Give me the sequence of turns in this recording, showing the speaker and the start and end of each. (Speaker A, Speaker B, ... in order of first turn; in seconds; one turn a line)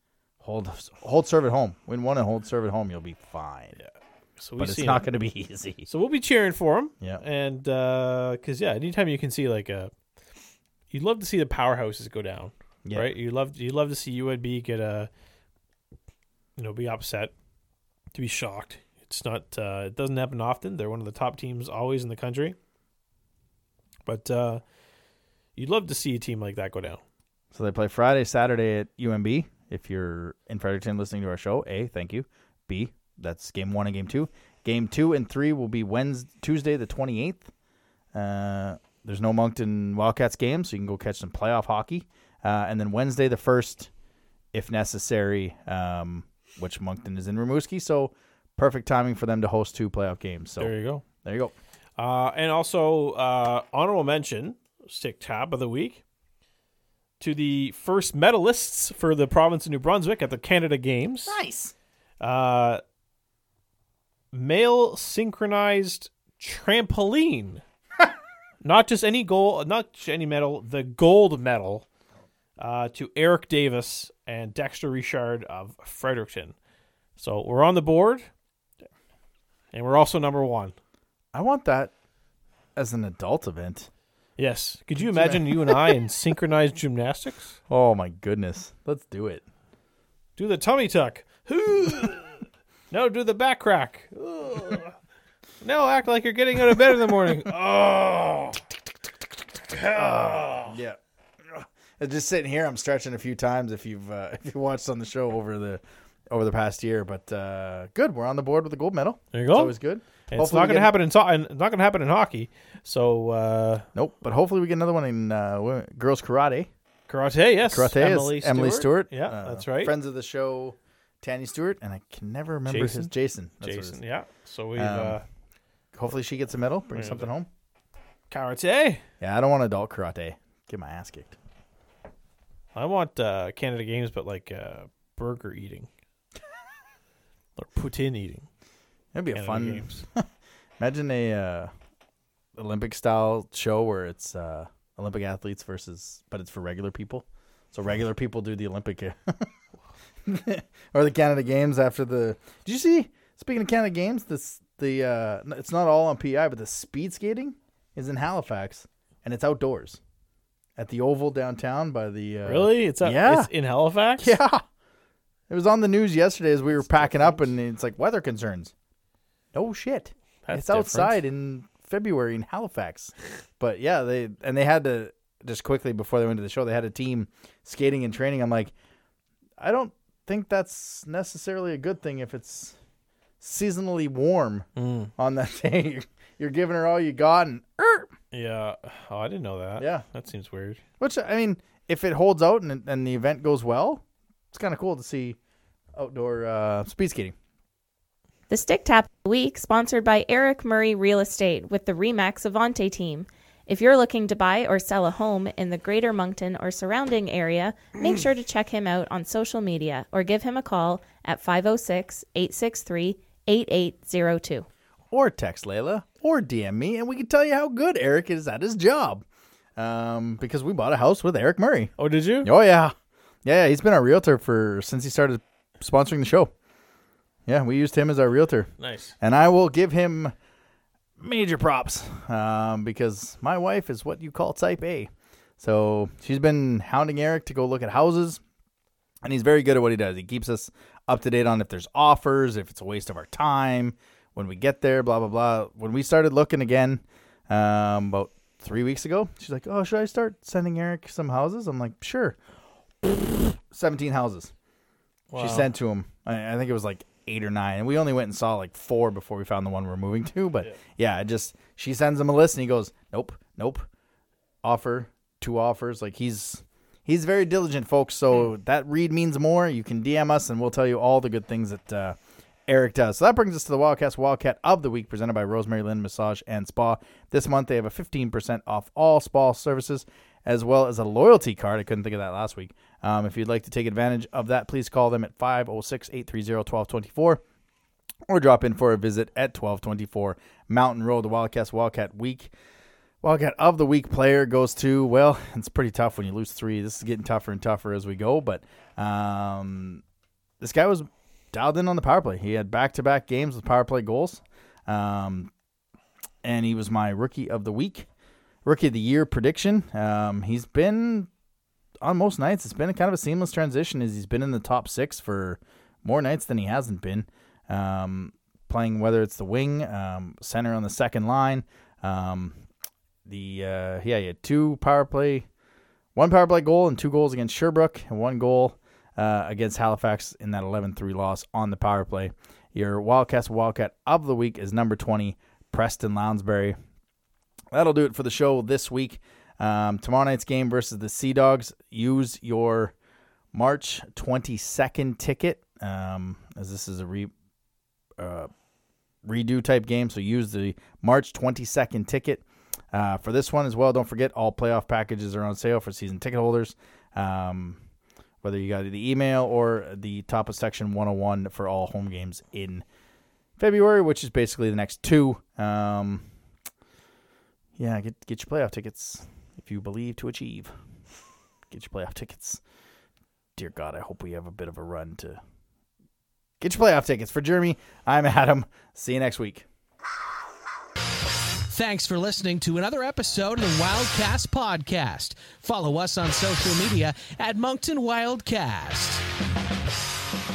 Speaker A: 0.4-3.8
Speaker B: 3.8-5.1
Speaker A: 4.6-5.9
Speaker B: 5.9-9.9
Speaker B: 10.9-15.1
Speaker A: 12.8-13.1
Speaker B: 16.6-17.3
Speaker B: 18.1-22.6
Speaker B: 24.1-24.6
Speaker B: 25.6-27.0
Speaker A: 27.5-37.5
Speaker A: 38.1-43.9
Speaker A: 44.5-51.5
Speaker B: 50.6-51.0
Speaker B: 52.0-56.0
Speaker B: 57.2-61.4
Speaker A: 61.3-61.7
Speaker B: 62.2-62.8
Speaker B: 64.3-67.6
Speaker B: 68.6-71.8
Speaker B: 72.6-76.5
Speaker B: 77.2-78.3
Speaker B: 79.7-80.8
Speaker A: 81.3-81.9
Speaker A: 82.8-83.9
Speaker B: 84.4-87.6
Speaker A: 85.0-85.9
Speaker A: 87.7-89.4
Speaker B: 90.4-94.9
Speaker B: 95.6-98.6
Speaker B: 99.7-100.8
Speaker A: 99.9-110.9
Speaker B: 109.3-109.8
Speaker B: 110.3-113.9
Speaker A: 114.0-116.7
Speaker B: 117.1-120.0
Speaker A: 117.7-124.0
Speaker B: 122.7-125.2
Speaker A: 124.8-125.2
Speaker A: 125.9-127.5
Speaker B: 126.9-127.3
Speaker B: 128.3-129.0
Speaker A: 129.2-131.4
Speaker B: 132.7-135.9
Speaker B: 137.6-138.5
Speaker A: 139.1-140.3
Speaker B: 139.3-140.0
Speaker A: 140.8-141.7
Speaker A: 142.6-149.5
Speaker A: 150.2-160.0
Speaker A: 160.8-163.5
Speaker B: 162.5-164.4
Speaker A: 164.2-164.6
Speaker A: 165.5-168.7
Speaker B: 166.7-167.5
Speaker A: 169.5-178.7
Speaker B: 170.5-171.2
Speaker A: 179.6-182.8
Speaker A: 183.4-188.1
Speaker B: 184.8-185.1
Speaker B: 188.3-190.8
Speaker A: 189.8-190.1
Speaker A: 191.0-195.4
Speaker A: 195.9-197.3
Speaker C: 198.5-214.7
Speaker A: 215.1-219.2
Speaker A: 219.8-226.5
Speaker B: 222.0-222.5
Speaker A: 227.5-230.3
Speaker B: 228.8-229.2
Speaker A: 231.2-238.4
Speaker A: 239.2-252.4
Speaker A: 253.0-254.5
Speaker B: 255.3-255.7
Speaker A: 255.4-263.9
Speaker A: 264.6-287.4
Speaker A: 288.3-292.5
Speaker A: 293.2-300.0
Speaker A: 300.6-305.5
Speaker A: 306.4-308.1
Speaker A: 308.6-311.3
Speaker A: 312.0-322.6
Speaker A: 323.3-325.5
Speaker A: 326.1-336.8
Speaker A: 337.7-342.9
Speaker A: 343.5-347.3
Speaker A: 348.2-348.5
Speaker A: 349.2-357.8
Speaker A: 358.4-362.9
Speaker A: 363.6-366.3
Speaker A: 367.8-370.8
Speaker A: 371.7-372.6
Speaker A: 373.6-375.4
Speaker A: 376.6-379.7
Speaker D: 381.7-389.2